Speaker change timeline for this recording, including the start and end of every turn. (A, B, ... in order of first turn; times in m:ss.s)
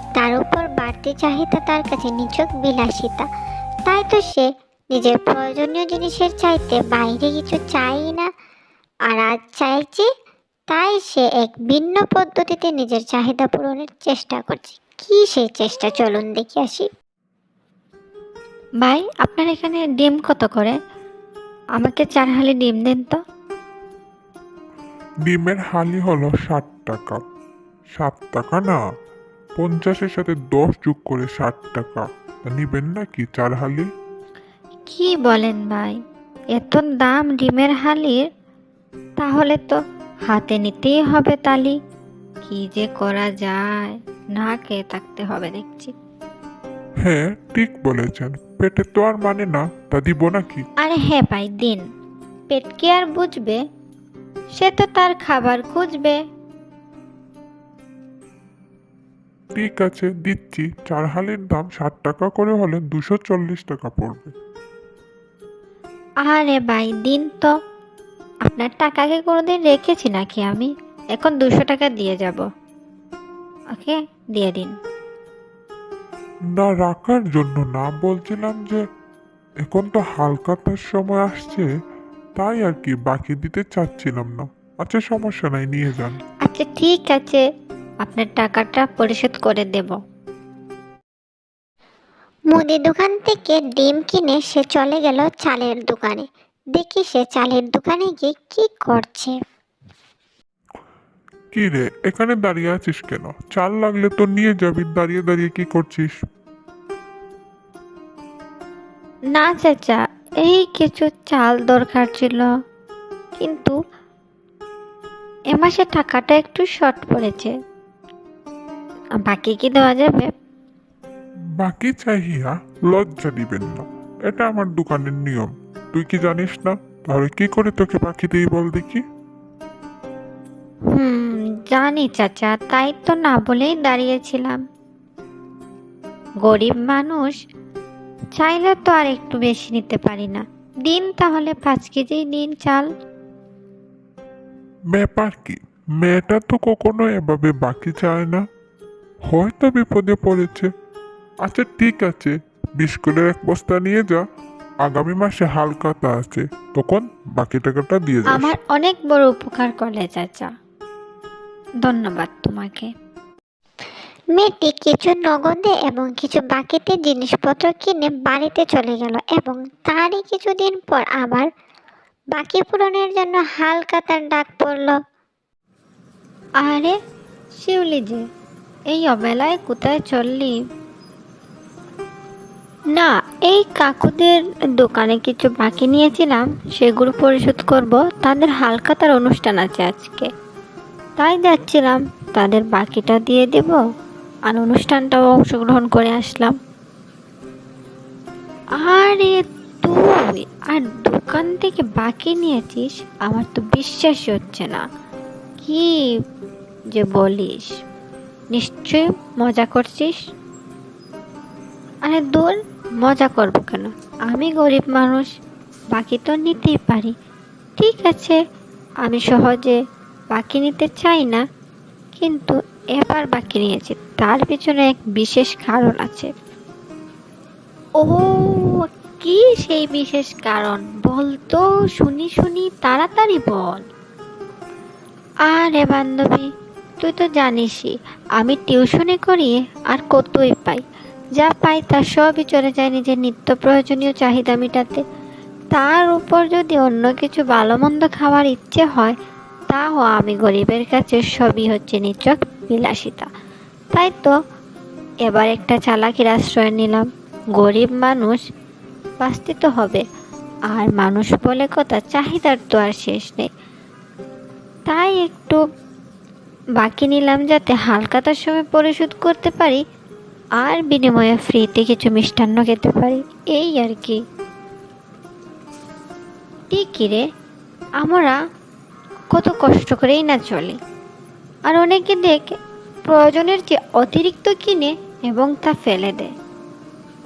0:00.2-0:03.3 A
0:03.9-0:08.3 A
0:09.1-0:10.1 A
0:10.7-0:16.9 A
0:18.8-0:20.7 B
0:21.8-0:23.2 B
0:25.3-0:27.2 C
0:28.0-0:28.8 C
0:29.6-0:33.8 C
0:34.9-0:36.0 B
0:36.6-0:38.2 B
0:39.2-0:41.8 B
0:42.4-0:45.9 B
0:47.0-0:50.6 C
0:50.8-0:51.8 B
0:52.5-0:53.6 B
0:54.6-0:56.2 B
0:59.6-1:04.3 C
1:06.3-1:07.5 B
1:08.5-1:12.4 B
1:13.8-1:14.7 B
1:16.6-1:18.8 C
1:19.7-1:21.7 C
1:22.4-1:26.2 C
1:26.4-1:27.4 B
1:28.0-1:30.0 B
1:32.5-1:39.4 A
1:41.5-1:46.1 C
1:49.3-1:52.5 B
1:53.4-1:53.8 B
1:55.5-1:57.5 B
1:59.2-2:00.3 B
2:01.6-2:09.0 C
2:10.9-2:14.6 B
2:16.4-2:17.3 B
2:18.4-2:22.9 B
2:24.9-2:28.4 C
2:29.3-2:30.7 C
2:31.4-2:34.2 C
2:34.8-2:38.5 C
2:38.3-2:40.5 B
2:41.8-2:42.9 B
2:44.3-2:51.5 A
2:52.3-2:55.0 A
2:56.6-2:56.9 B
2:57.5-2:58.2 B
2:58.9-3:00.5 B
3:02.9-3:10.3 B
3:11.2-3:13.8 B
3:14.5-3:16.5 B
3:18.8-3:24.8 B
3:25.6-3:25.9 B
3:26.9-3:27.7 B
3:28.5-3:30.2 B
3:32.0-3:35.2 B
3:35.9-3:37.1 B
3:37.8-3:38.4 B
3:39.0-3:39.8 B
3:40.3-3:41.4 B
3:42.2-3:46.3 B
3:48.0-3:53.8 B
3:55.5-3:56.5 B
3:57.0-4:00.8 B
4:01.4-4:05.0 B
4:05.7-4:09.1 B
4:09.7-4:13.3 B
4:13.9-4:14.3 B
4:15.2-4:18.4 B
4:19.2-4:20.0 B
4:20.7-4:23.5 B
4:24.9-4:25.6 B
4:26.8-4:29.8 B
4:30.6-4:34.2 B
4:36.7-4:37.2 B
4:38.0-4:38.4 B
4:39.3-4:40.8 B
4:41.7-4:42.6 B
4:43.1-4:46.3 B